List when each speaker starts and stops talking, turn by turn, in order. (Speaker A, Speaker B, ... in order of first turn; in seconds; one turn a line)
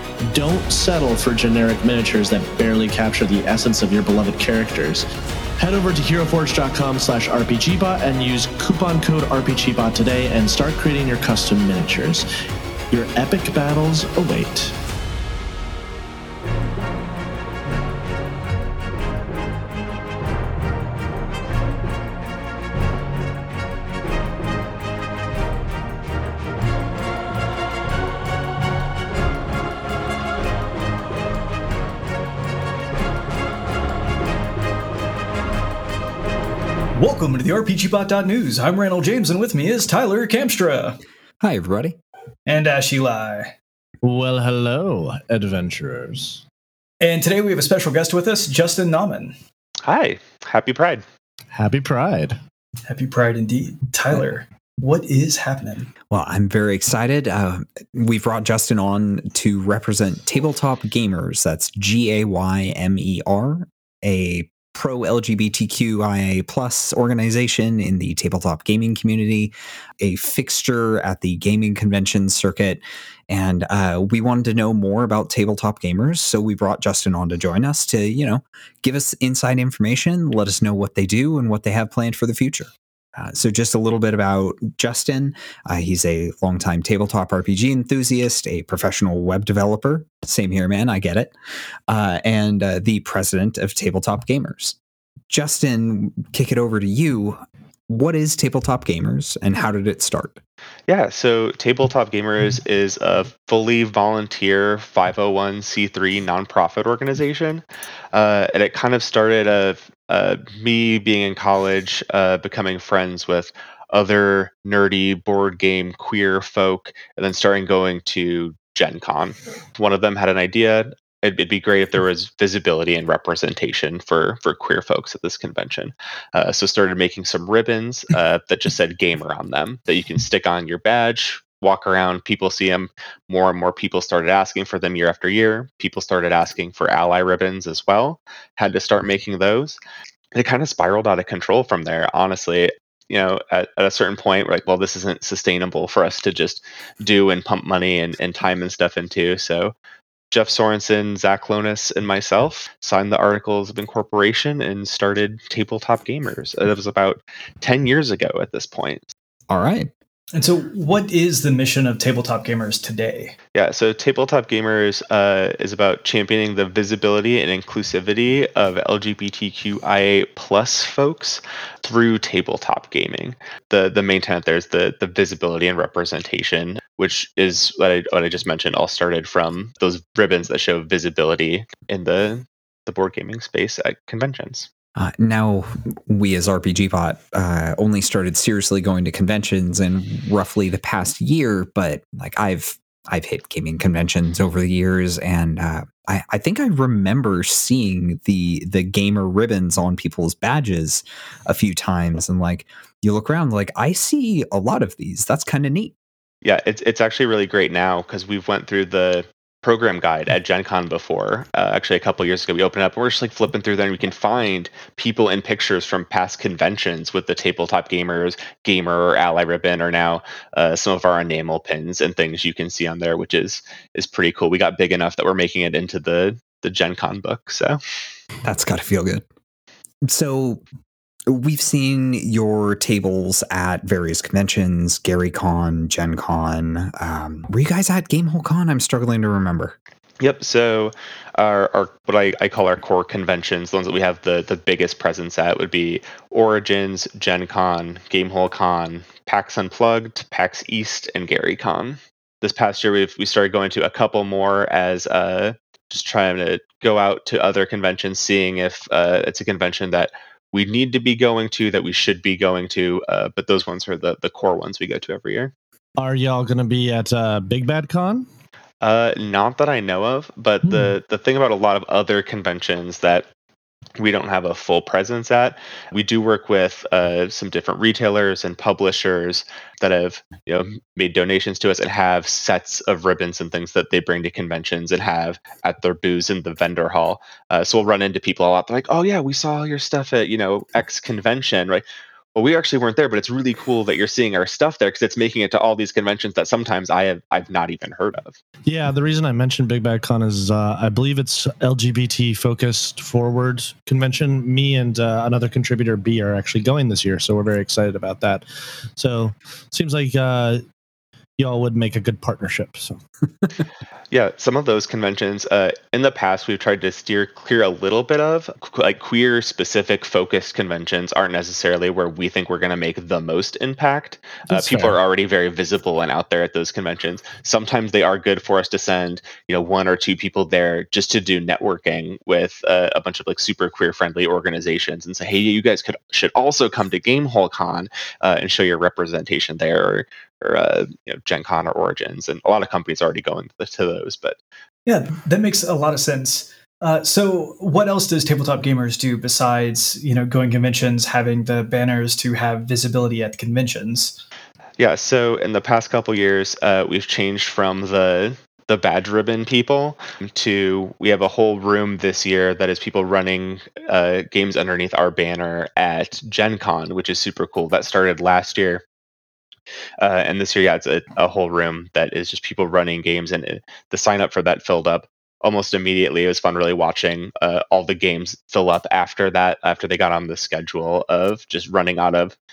Speaker A: 0.2-5.0
Speaker A: 5.6-12.2
Speaker A: 12.9-14.7
Speaker B: 36.9-41.0
Speaker C: 41.4-42.0
Speaker B: 42.5-43.5
Speaker A: 44.0-46.4
Speaker B: 47.0-49.3
Speaker D: 49.8-51.0
Speaker A: 51.5-52.4
Speaker B: 52.9-55.9
Speaker C: 56.1-91.3
Speaker C: 91.9-94.8
Speaker C: 95.3-100.4
Speaker D: 100.9-139.8
Speaker D: 140.3-149.7
Speaker D: 150.3-159.1
Speaker C: 159.5-159.9
Speaker B: 160.3-163.3
Speaker D: 163.5-184.7
Speaker C: 184.9-205.9
Speaker D: 206.4-227.8
Speaker C: 228.4-229.2
Speaker C: 230.0-230.6
Speaker C: 231.3-239.8
Speaker D: 240.2-265.5
Speaker A: 266.0-268.3
Speaker D: 268.8-273.3
Speaker A: 270.6-270.9
Speaker D: 274.0-298.4
Speaker A: 298.6-308.4
Speaker A: 308.9-310.6
Speaker A: 311.4-313.0
Speaker D: 314.1-344.4
Speaker B: 324.5-324.9
Speaker B: 344.9-354.2
Speaker D: 354.8-368.8
Speaker D: 370.0-382.4